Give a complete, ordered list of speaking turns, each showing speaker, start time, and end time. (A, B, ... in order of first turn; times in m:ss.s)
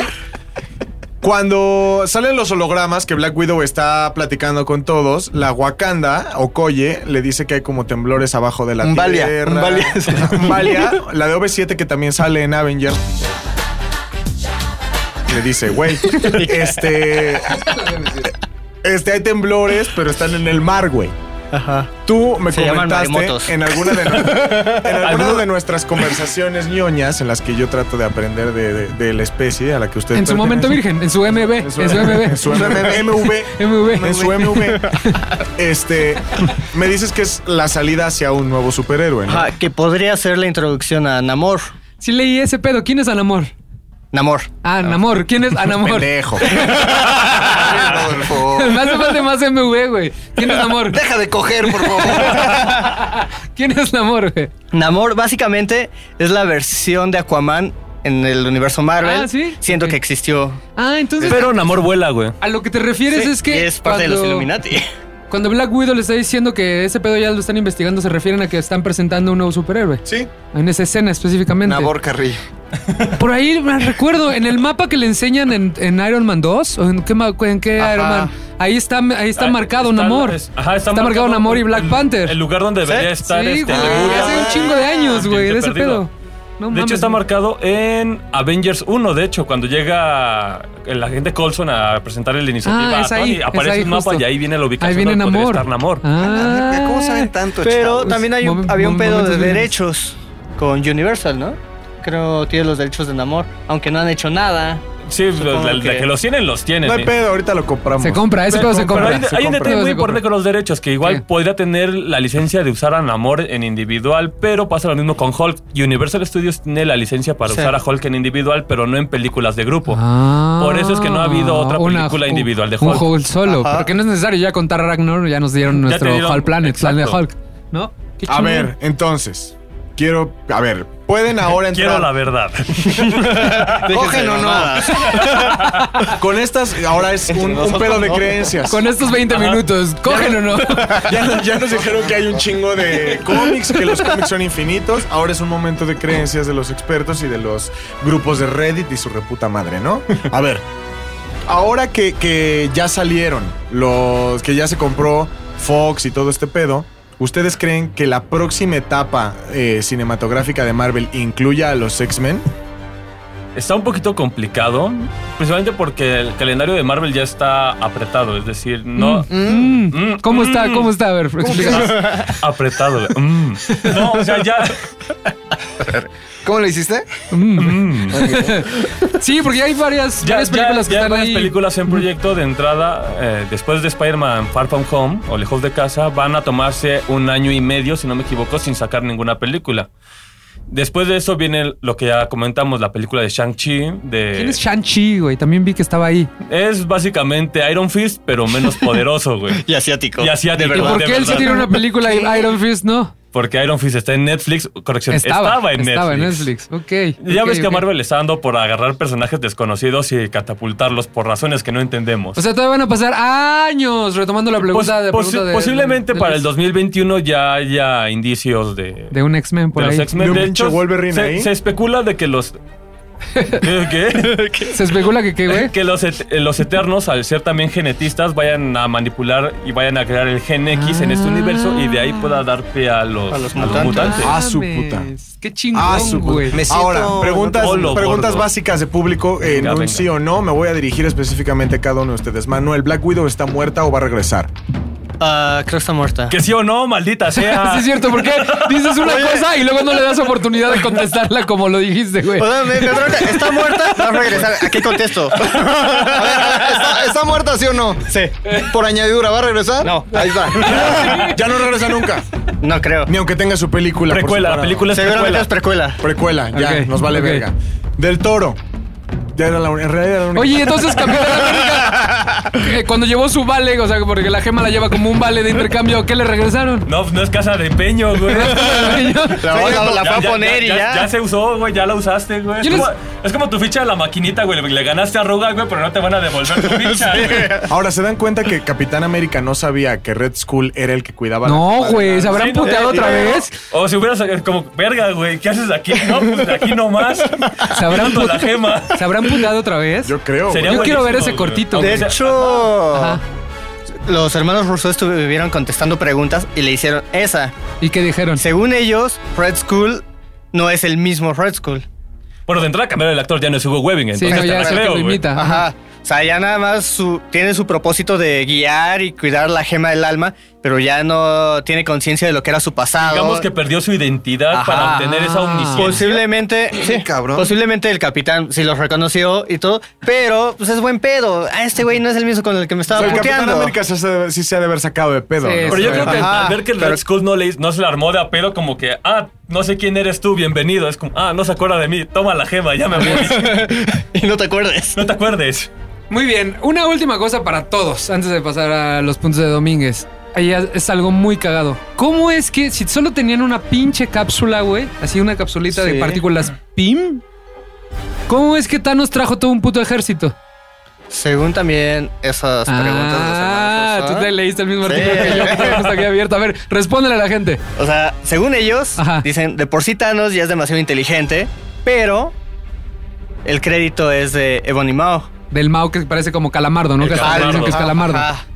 0:01.2-0:13.3 A
0:08.8-0:10.8 B
0:15.3-0:17.7 A
0:16.2-0:17.0 C
0:17.8-0:18.3 D
0:18.8-0:21.2 A
0:21.5-0:21.9 C
0:22.0-0:35.0 A
0:22.5-0:24.8 C
0:25.0-0:25.4 E
0:30.1-0:32.9 D
0:32.5-0:33.2 B
0:33.5-0:35.2 D
0:35.6-0:39.5 A
0:39.3-0:41.7 C
0:42.0-0:43.5 D
0:44.1-0:44.5 C
0:44.6-0:46.8 D
0:45.7-0:46.7 A
0:47.0-0:48.9 B
0:48.3-0:51.0 D
0:50.8-0:52.8 B
0:51.7-0:54.5 D
0:54.7-1:00.6 C
0:59.0-1:00.0 D
1:00.8-1:01.6 D
1:01.2-1:02.4 E
1:02.4-1:04.5 D
1:03.1-1:04.9 C
1:05.3-1:11.9 D
1:10.0-1:10.3 A
1:11.6-1:12.4 B
1:13.1-1:20.4 D
1:19.4-1:26.1 E
1:20.9-1:22.4 D
1:23.2-1:27.2 D
1:23.7-1:24.7 B
1:23.9-1:24.7 C
1:26.7-1:36.0 E
1:32.6-1:34.3 D
1:34.8-1:37.3 D
1:36.2-1:38.2 B
1:37.6-1:44.8 C
1:38.1-1:39.8 D
1:45.1-1:47.1 E
1:45.4-1:46.1 C
1:46.8-1:49.8 A
1:48.0-1:50.2 D
1:48.5-2:00.0 E
1:57.5-1:57.7 C
1:59.9-2:08.7 D
2:00.6-2:03.1 E
2:03.4-2:03.9 C
2:05.7-2:07.2 E
2:08.3-2:12.1 A
2:11.6-2:13.8 E
2:13.3-2:15.7 C
2:13.8-2:15.0 B
2:15.0-2:16.0 E
2:15.1-2:15.8 D
2:16.1-2:18.8 A
2:17.3-2:18.5 C
2:18.7-2:21.1 D
2:19.3-2:19.6 E
2:20.1-2:30.6 A
2:31.5-2:42.4 A
2:43.6-2:49.3 E
2:49.0-2:52.1 D
2:49.3-2:49.9 B
2:49.9-2:54.9 E
2:51.6-2:52.4 C
2:53.7-2:54.0 D
2:55.8-2:57.1 B
2:57.3-3:02.0 D
2:57.6-2:58.2 E
2:58.1-2:58.7 B
3:00.2-3:09.9 E
3:10.7-3:14.6 E
3:14.4-3:16.3 D
3:16.5-3:19.6 E
3:19.6-3:22.5 C
3:20.2-3:21.7 E
3:20.7-3:23.1 D
3:23.3-3:26.5 E
3:25.1-3:27.8 D
3:27.2-3:32.4 E
3:32.4-3:36.5 D
3:34.6-3:39.2 E
3:39.1-3:40.4 D
3:39.7-3:42.6 E
3:40.2-3:41.5 A
3:43.4-3:43.6 D
3:43.6-3:45.0 E
3:44.6-3:45.7 D
3:45.5-3:54.3 E
3:50.7-3:52.4 D
3:53.3-3:54.2 C
3:53.7-3:56.6 D
3:54.2-3:55.1 A
3:55.7-4:04.5 A
3:56.5-3:58.0 B
3:57.6-3:58.5 E
3:59.4-4:00.1 E
4:05.2-4:06.4 C
4:06.3-4:09.0 E
4:07.4-4:12.9 D
4:09.0-4:09.5 C
4:12.3-4:16.9 C
4:15.5-4:20.9 B
4:18.1-4:18.6 C
4:19.8-4:20.9 C
4:20.5-4:21.4 D
4:20.7-4:22.3 A
4:20.8-4:21.3 E
4:22.6-4:23.1 C
4:23.1-4:24.9 A
4:24.1-4:25.5 E
4:24.9-4:26.0 C
4:26.0-4:28.6 A
4:26.5-4:27.5 D
4:29.4-4:31.6 A
4:30.4-4:36.9 D
4:36.9-4:47.6 E
4:38.2-4:39.5 D
4:39.4-4:41.1 C
4:39.5-4:40.3 A
4:42.6-4:42.9 D
4:46.8-4:47.7 C
4:47.7-4:52.5 A
4:51.4-4:53.6 D
4:52.3-4:59.1 E
4:52.6-4:53.5 C
4:57.6-5:02.1 D
5:00.0-5:01.0 A
5:00.5-5:02.7 E
5:01.7-5:03.2 C
5:02.9-5:03.2 D
5:04.0-5:07.5 C
5:07.8-5:08.4 D
5:08.4-5:11.8 C
5:12.5-5:15.3 E
5:14.1-5:15.7 D
5:14.2-5:23.5 C
5:23.0-5:26.2 E
5:24.5-5:25.0 C
5:24.8-5:26.0 D
5:25.8-5:33.8 C
5:26.8-5:27.5 B
5:32.9-5:36.3 A
5:33.0-5:33.3 D
5:35.4-5:36.4 D
5:35.7-5:43.7 E
5:36.1-5:37.0 C
5:43.0-5:43.4 D
5:43.0-5:45.0 C
5:45.0-5:45.7 E
5:46.1-5:57.2 D
5:55.7-5:56.2 C
5:58.3-6:00.4 D
6:01.1-6:04.3 C
6:02.7-6:07.6 D
6:04.8-6:06.0 C
6:07.8-6:12.3 C
6:09.0-6:09.3 D
6:13.4-6:15.3 C
6:15.5-6:18.3 D
6:17.0-6:17.8 E
6:17.2-6:18.4 C